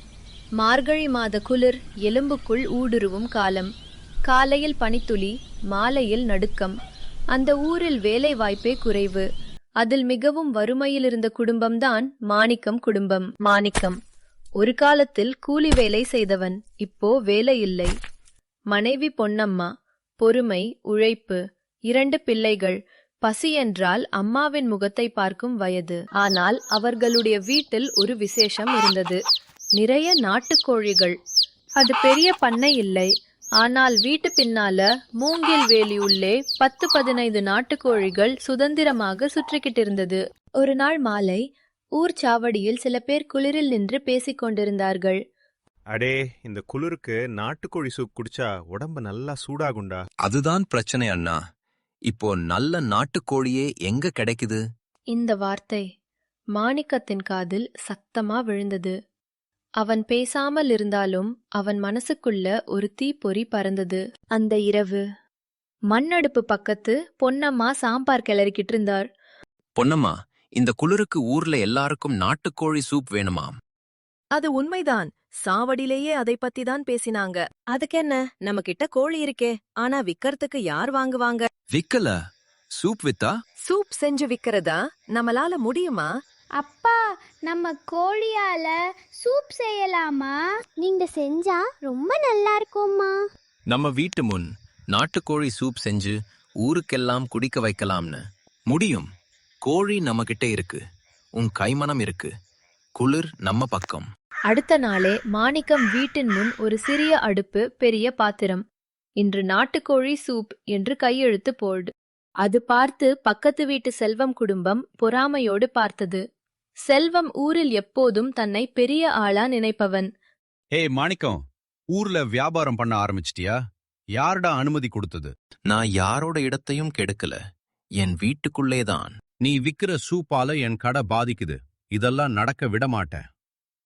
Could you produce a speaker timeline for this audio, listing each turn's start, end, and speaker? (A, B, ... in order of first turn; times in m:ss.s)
0:00.6-0:03.7 A
0:04.3-0:06.7 A
0:07.3-0:09.2 A
0:09.8-0:14.0 A
0:14.6-0:17.9 A
0:18.7-0:19.7 A
0:20.2-0:29.2 A
0:29.8-0:31.2 A
0:31.8-0:33.1 A
0:33.6-0:41.4 A
0:42.0-0:45.2 A
0:45.9-0:50.1 B
0:50.2-0:51.4 C
0:52.1-0:54.6 C
0:55.1-0:55.8 A
0:56.6-0:58.9 A
0:59.8-1:05.0 A
1:05.9-1:09.0 A
1:09.8-1:13.6 C
1:14.3-1:21.5 D
1:21.7-1:22.2 C
1:22.8-1:23.3 C
1:23.6-1:26.1 D
1:26.6-1:33.2 E
1:33.7-1:39.1 C
1:39.6-1:40.8 C
1:41.4-1:42.3 C
1:43.0-1:44.1 C
1:44.5-1:48.6 A
1:49.2-1:51.9 A
1:52.4-1:56.2 A
1:56.9-2:00.1 A
2:00.7-2:01.4 F
2:01.9-2:03.6 F
2:04.2-2:05.3 F
2:05.7-2:07.4 C
2:08.0-2:09.1 C
2:09.4-2:13.2 F